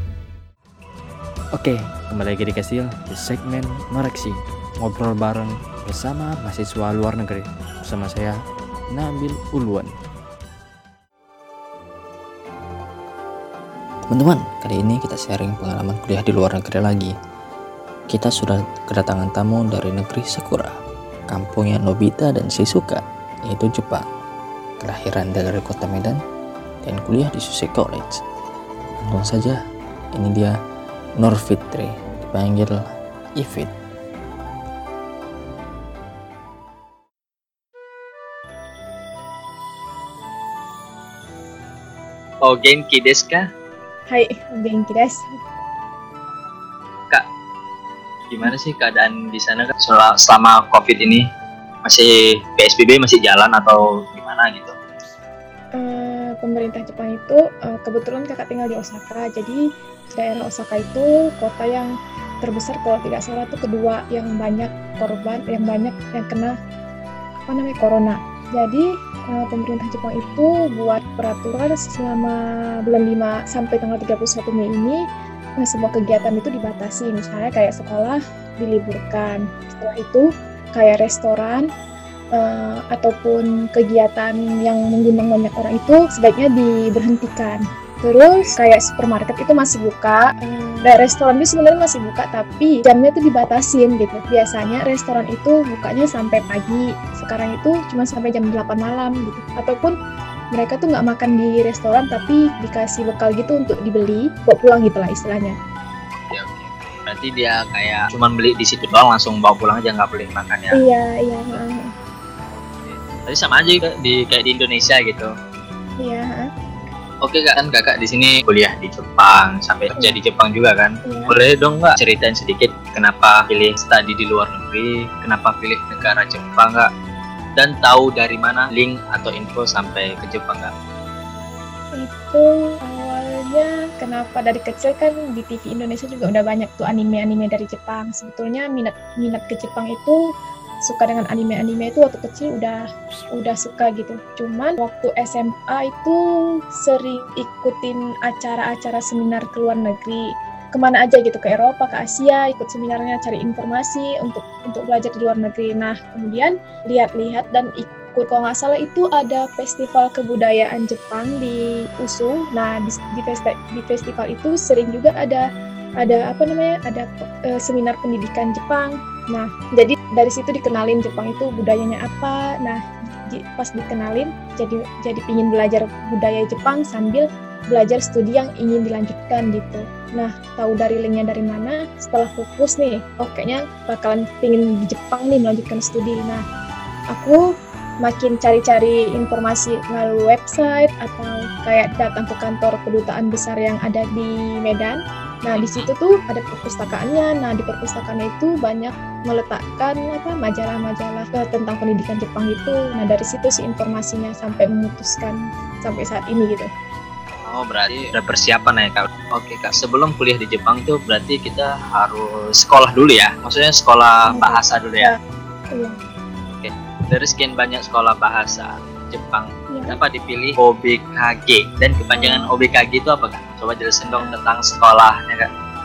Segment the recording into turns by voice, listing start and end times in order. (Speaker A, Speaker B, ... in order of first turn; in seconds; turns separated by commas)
Speaker A: 1.6-8.3, Speaker A: 8.9-9.9, Speaker A: 14.1-17.1, Speaker A: 18.1-20.7, Speaker A: 21.3-24.1, Speaker A: 24.8-26.2, Speaker A: 26.8-28.1, Speaker A: 29.0-29.6, Speaker A: 30.1-30.5, Speaker A: 31.2-33.7, Speaker B: 42.4-43.5, Speaker C: 44.1-45.4, Speaker B: 48.3-51.2, Speaker B: 51.8-54.7, Speaker C: 55.8-66.5, Speaker C: 67.5-75.0, Speaker C: 75.6-81.7, Speaker C: 82.3-100.0, Speaker C: 100.5-105.6, Speaker B: 106.2-110.8, Speaker C: 110.7-111.9, Speaker B: 112.5-115.3, Speaker C: 116.0-116.5, Speaker B: 117.2-126.9, Speaker C: 121.0-121.3, Speaker B: 127.6-130.7, Speaker C: 131.9-140.2, Speaker C: 140.8-142.8, Speaker C: 143.3-146.2, Speaker C: 146.8-165.4, Speaker C: 166.0-186.4, Speaker C: 187.1-187.4, Speaker C: 188.0-206.7, Speaker B: 195.5-195.9, Speaker B: 207.3-215.1, Speaker C: 214.3-215.2, Speaker B: 216.5-225.5, Speaker C: 219.7-219.9, Speaker C: 222.1-222.5